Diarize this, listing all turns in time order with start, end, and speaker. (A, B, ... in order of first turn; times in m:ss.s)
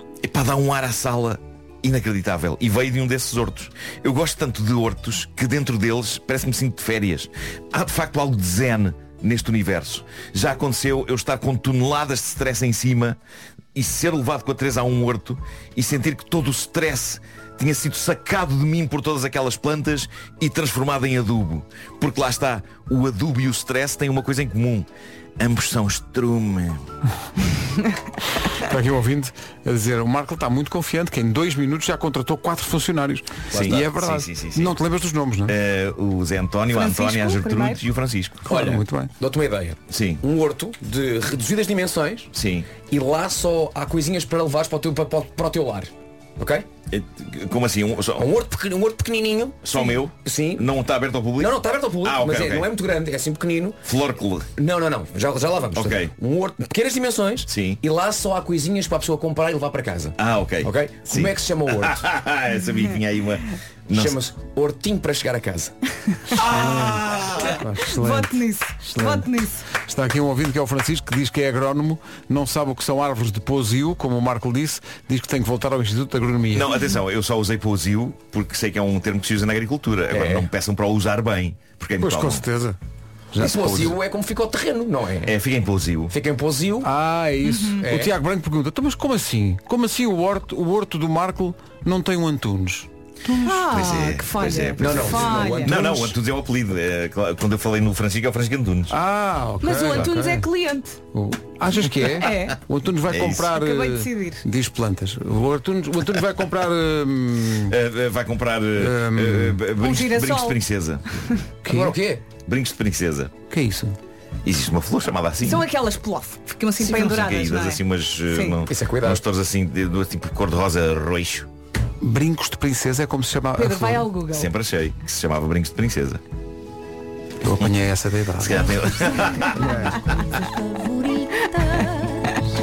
0:00.2-0:13.2 A
0:13.7-0:24.9 A
0:25.4-0:26.8 A
0:28.5-0:35.5 B
0:33.5-0:33.8 C
0:33.5-0:34.8 A
0:35.5-0:38.6 A
0:36.7-0:37.8 D
0:38.4-0:39.1 B
0:38.5-0:46.7 C
0:39.9-0:40.2 A
0:42.3-0:42.7 A
0:46.9-0:48.3 A
0:48.2-0:50.7 C
0:49.6-0:52.7 A
0:51.4-0:53.8 C
0:53.8-0:54.5 A
0:54.6-1:02.0 C
0:55.7-0:56.1 A
0:57.5-0:57.8 A
1:00.2-1:04.2 A
1:03.9-1:05.7 C
1:06.3-1:07.6 A
1:06.3-1:07.0 B
1:07.6-1:16.7 B
1:07.8-1:09.6 D
1:16.5-1:22.4 A
1:20.1-1:20.5 C
1:22.0-1:22.8 B
1:23.3-1:23.9 B
1:23.4-1:25.3 C
1:23.4-1:23.9 A
1:25.2-1:26.1 A
1:26.1-1:26.9 C
1:26.8-1:33.6 B
1:27.4-1:27.8 D
1:27.8-1:28.1 C
1:33.3-1:35.9 D
1:33.7-1:39.0 A
1:34.8-1:36.1 C
1:38.9-1:40.5 B
1:39.6-1:41.0 D
1:41.1-1:47.8 B
1:42.1-1:42.6 D
1:43.1-1:43.5 A
1:43.4-1:44.4 D
1:47.6-1:51.1 A
1:48.8-1:49.6 B
1:49.8-1:50.6 D
1:51.6-1:51.9 B
1:51.7-1:52.2 C
1:52.4-1:53.3 A
1:53.5-1:54.0 B
1:54.4-1:55.6 A
1:55.4-1:58.6 D
1:56.8-2:01.5 A
1:58.7-1:59.2 C
2:02.0-2:04.1 B
2:03.6-2:04.5 D
2:04.3-2:06.2 A
2:07.4-2:08.6 B
2:08.4-2:09.7 A
2:08.7-2:12.4 E
2:09.6-2:10.0 B